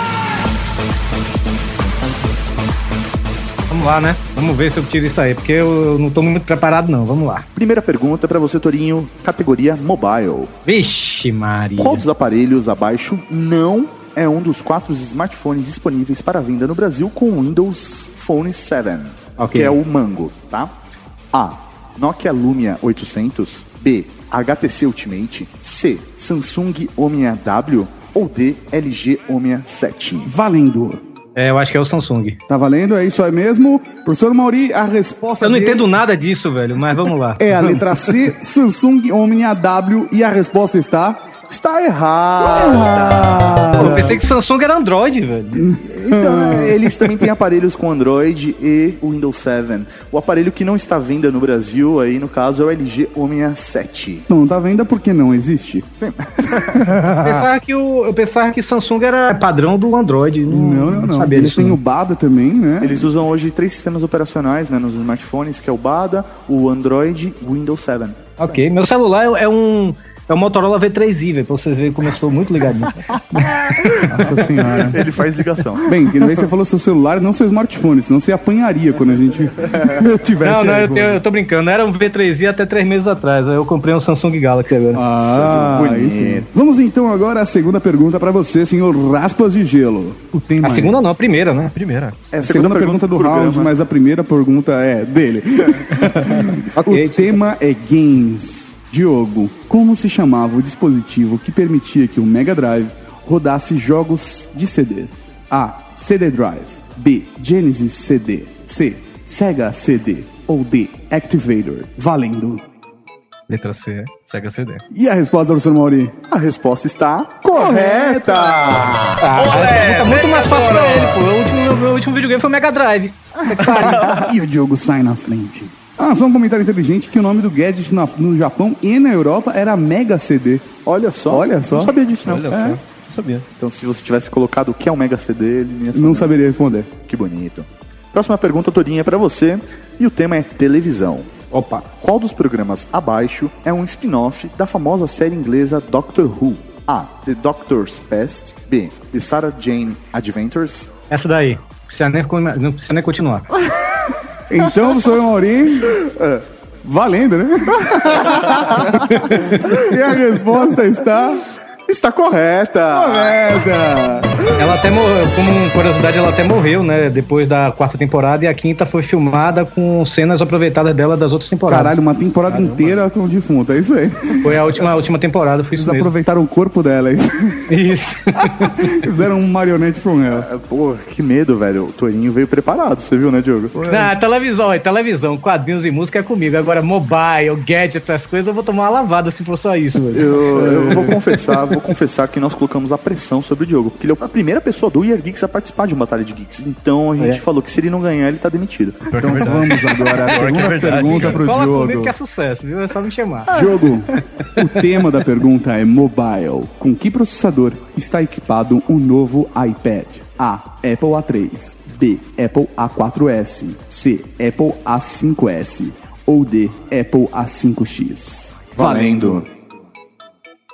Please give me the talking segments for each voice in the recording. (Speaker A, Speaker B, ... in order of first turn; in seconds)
Speaker A: 3.7-7.5, 10.7-12.1, 19.4-19.8, 31.3-32.4, 35.4-37.8, 43.7-45.7, 57.2-61.8, 68.4-73.5, 80.4-85.0, 90.6-91.7, 96.7-97.3, 119.2-124.2, 141.5-141.9, 151.1-153.5, 159.1-159.5, 164.6-171.9, 174.4-176.1, 177.7-179.0, 183.8-190.4, 201.0-203.5
Speaker B: 7.5-10.5, 11.8-20.7, 21.3-30.3, 41.5-44.1, 45.8-54.3, 56.0-56.8, 62.8-68.6, 73.6-76.5, 85.2-86.5, 92.3-93.7, 116.3-119.2, 130.8-132.6, 133.6-136.3, 137.1-141.3, 142.0-150.9, 155.9-156.4, 157.9-159.0, 161.9-163.4, 180.4-183.8, 190.1-199.6, 218.8-219.5
Speaker C: 30.2-31.0, 32.5-35.9, 37.4-41.2, 42.4-44.2, 45.5-47.2, 54.3-55.9, 56.4-57.5, 60.5-63.1, 73.9-75.1, 75.8-81.2, 84.9-91.0, 92.4-112.7, 114.9-116.2, 117.5-119.1, 124.1-130.7, 131.3-131.9, 132.5-132.8, 135.9-136.9, 154.5-156.0, 156.8-161.4, 162.9-164.5, 171.7-174.6, 175.7-177.7, 178.4-180.5, 183.8-184.1, 190.5-191.2, 199.2-202.1, 203.5-219.5
Speaker D: 91.7-92.2, 113.5-114.8, 119.3-121.2, 123.7-124.2, 132.2-133.5, 172.5-173.1, 199.1-201.5